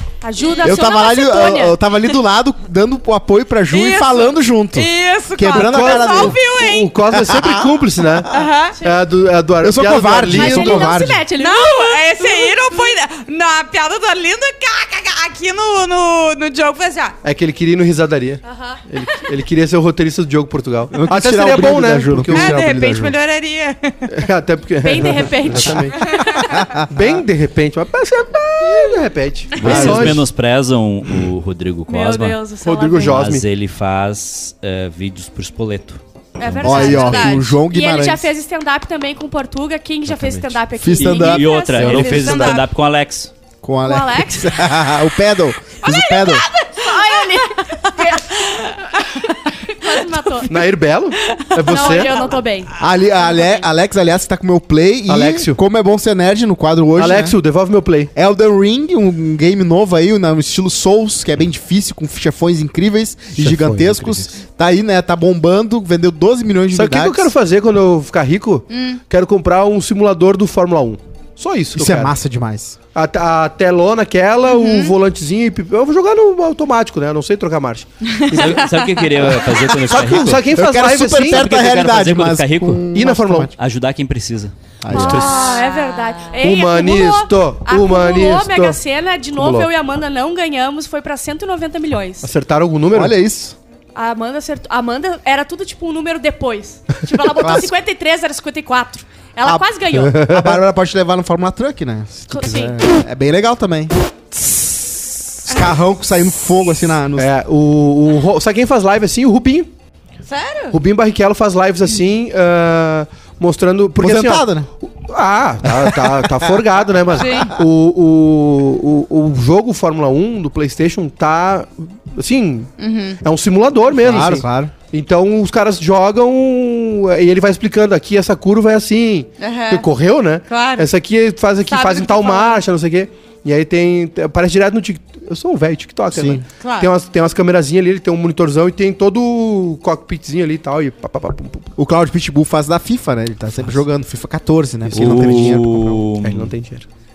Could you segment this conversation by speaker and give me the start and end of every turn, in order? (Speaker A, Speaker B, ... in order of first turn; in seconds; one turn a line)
Speaker A: 0.2-1.8
Speaker B: 0.6-6.4
Speaker C: 3.7-6.9
Speaker D: 5.5-10.9
Speaker B: 7.1-8.2
Speaker C: 8.3-8.8
Speaker B: 9.6-11.2
Speaker A: 10.3-13.0
Speaker C: 11.3-17.2
Speaker D: 17.2-22.7
Speaker A: 18.4-19.1
Speaker B: 20.9-23.1
Speaker C: 22.3-24.1
Speaker D: 24.1-26.2
Speaker A: 24.8-26.8
Speaker B: 26.5-26.9
Speaker D: 26.9-30.3
Speaker E: 29.6-32.4
Speaker B: 29.6-30.2
Speaker A: 31.9-33.2
Speaker D: 32.6-33.4
Speaker E: 33.0-37.1
Speaker C: 36.4-37.5
Speaker A: 36.4-42.1
Speaker B: 36.6-38.3
Speaker D: 40.1-40.6
Speaker B: 40.7-41.5
Speaker E: 40.9-43.3
Speaker C: 41.7-42.7
Speaker D: 41.8-42.5
Speaker B: 43.6-46.5
Speaker A: 43.8-44.5
Speaker C: 45.8-49.3
Speaker A: 46.8-49.1
Speaker A: 49.6-50.5
Speaker C: 49.9-50.6
Speaker D: 50.4-52.2
Speaker C: 51.2-52.0
Speaker A: 51.6-52.7
Speaker B: 52.8-57.4
Speaker D: 55.1-55.6
Speaker D: 57.0-58.1
Speaker B: 58.1-67.3
Speaker D: 63.4-64.3
Speaker D: 66.7-72.1
Speaker C: 68.7-69.0
Speaker B: 71.7-72.8
Speaker D: 72.9-78.7
Speaker C: 74.5-75.0
Speaker C: 78.0-79.0
Speaker E: 78.3-80.4
Speaker D: 79.2-81.4
Speaker B: 79.9-83.5
Speaker E: 81.2-82.9
Speaker D: 82.9-83.5
Speaker E: 83.5-84.5
Speaker B: 84.8-85.3
Speaker A: 84.9-92.3
Speaker D: 84.9-85.6
Speaker C: 85.0-86.4
Speaker D: 86.4-88.8
Speaker D: 89.3-89.7
Speaker D: 92.2-93.1
Speaker B: 92.9-93.5
Speaker A: 93.9-100.3
Speaker B: 97.3-97.7
Speaker B: 99.4-103.9
Speaker D: 100.0-100.6
Speaker A: 102.3-102.8
Speaker D: 102.4-102.7
Speaker B: 105.4-107.3
Speaker D: 107.2-109.7
Speaker C: 110.2-110.8
Speaker D: 110.7-141.7
Speaker B: 114.0-114.7
Speaker B: 115.6-116.5
Speaker C: 117.1-117.5
Speaker C: 122.8-123.2
Speaker B: 124.0-124.7
Speaker C: 129.4-129.9
Speaker C: 130.5-130.9
Speaker C: 131.7-132.6
Speaker B: 136.1-136.4
Speaker C: 136.5-136.9
Speaker B: 141.8-146.1
Speaker D: 144.9-145.6
Speaker E: 144.9-146.5
Speaker D: 146.2-146.8